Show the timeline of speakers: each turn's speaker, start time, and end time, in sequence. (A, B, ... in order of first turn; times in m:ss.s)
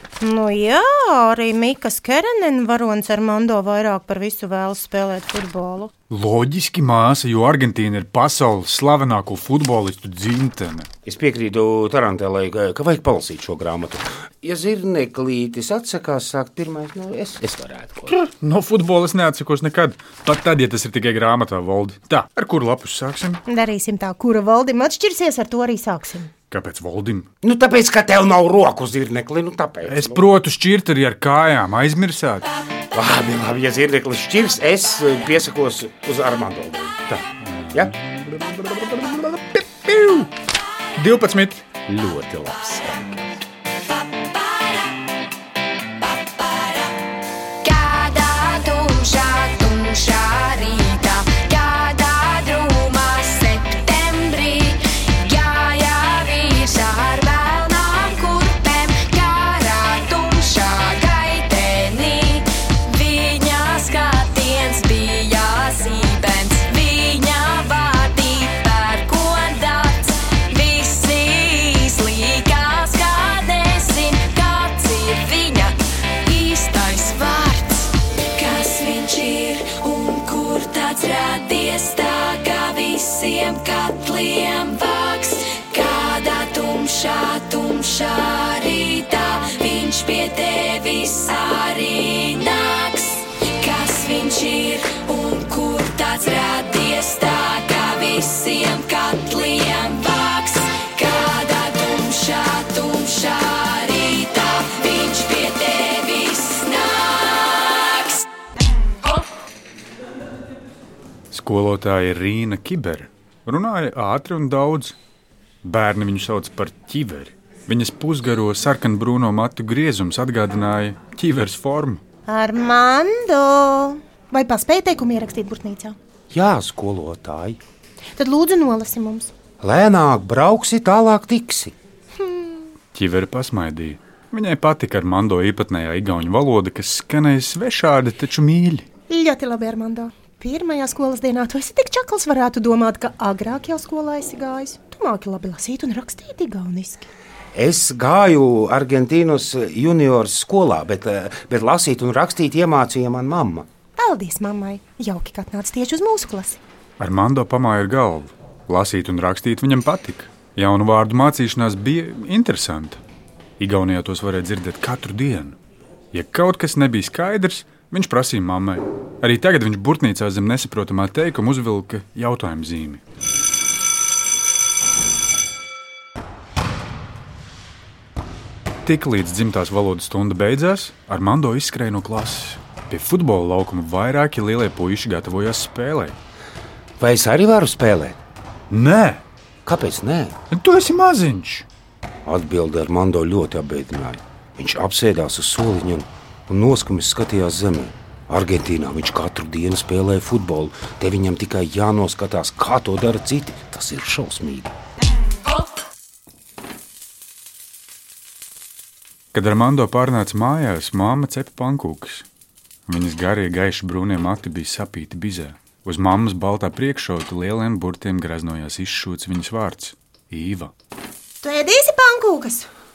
0:00.2-0:05.9 A
0:06.1-0:10.9 B
0:11.0-0:18.1 C
0:18.1-0:23.4 B
0:23.5-0:26.3 A
0:26.5-0:27.3 B
0:27.4-0:30.3 C
0:29.8-0:32.5 B
0:32.9-0:37.0 C
0:37.1-0:40.3 B
0:41.0-0:41.6 B
0:41.9-0:43.2 C
0:47.6-1:48.2 D
1:51.3-1:55.0 B
1:55.6-2:02.0 B
2:02.3-2:06.0 A
2:06.3-2:07.6 C
2:08.2-2:09.3 A
2:09.6-2:11.7 C
2:12.2-2:12.7 A
2:12.9-2:18.8 B
2:19.1-2:27.1 A
2:27.5-2:33.7 C
2:34.0-2:36.6 A
2:37.0-2:43.0 B
2:43.6-2:45.6 B
2:46.1-2:53.0 B
2:58.8-3:06.2 B
3:07.0-3:08.2 C
3:08.7-3:09.2 B
3:09.6-3:10.3 C
3:10.5-3:11.6 B
3:12.2-3:24.7 C
3:29.3-3:32.2 B
3:32.9-3:40.7 B
3:41.4-3:42.6 A